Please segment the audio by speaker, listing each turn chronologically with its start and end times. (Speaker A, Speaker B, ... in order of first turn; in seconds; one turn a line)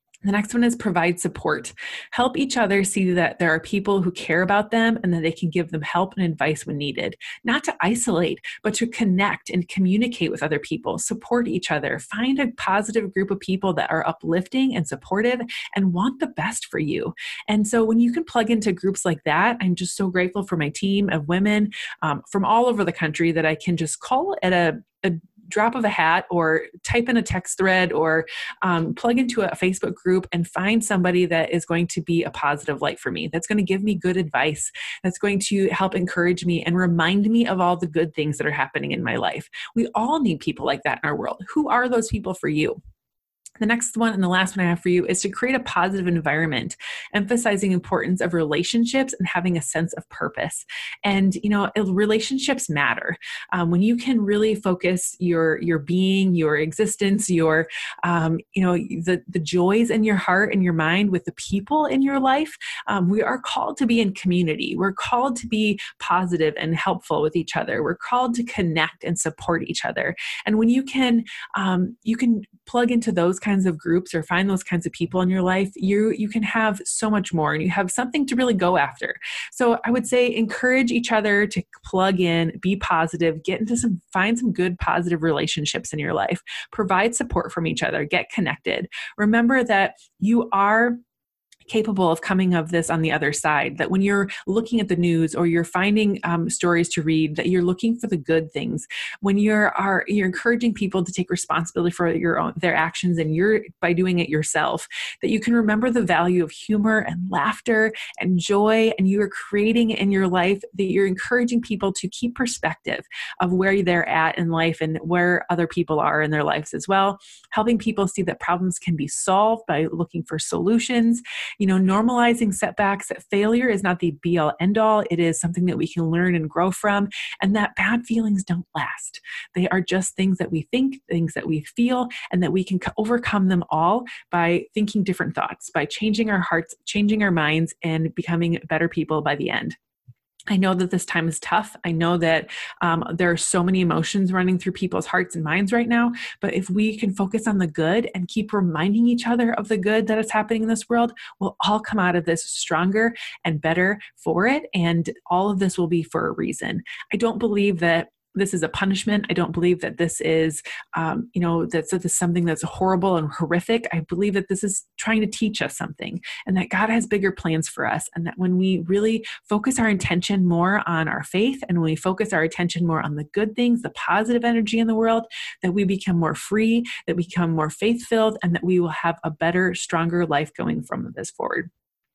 Speaker A: 0.2-42.8
Speaker A: 43.6-91.0
Speaker A: 91.7-139.8
Speaker A: 140.5-181.7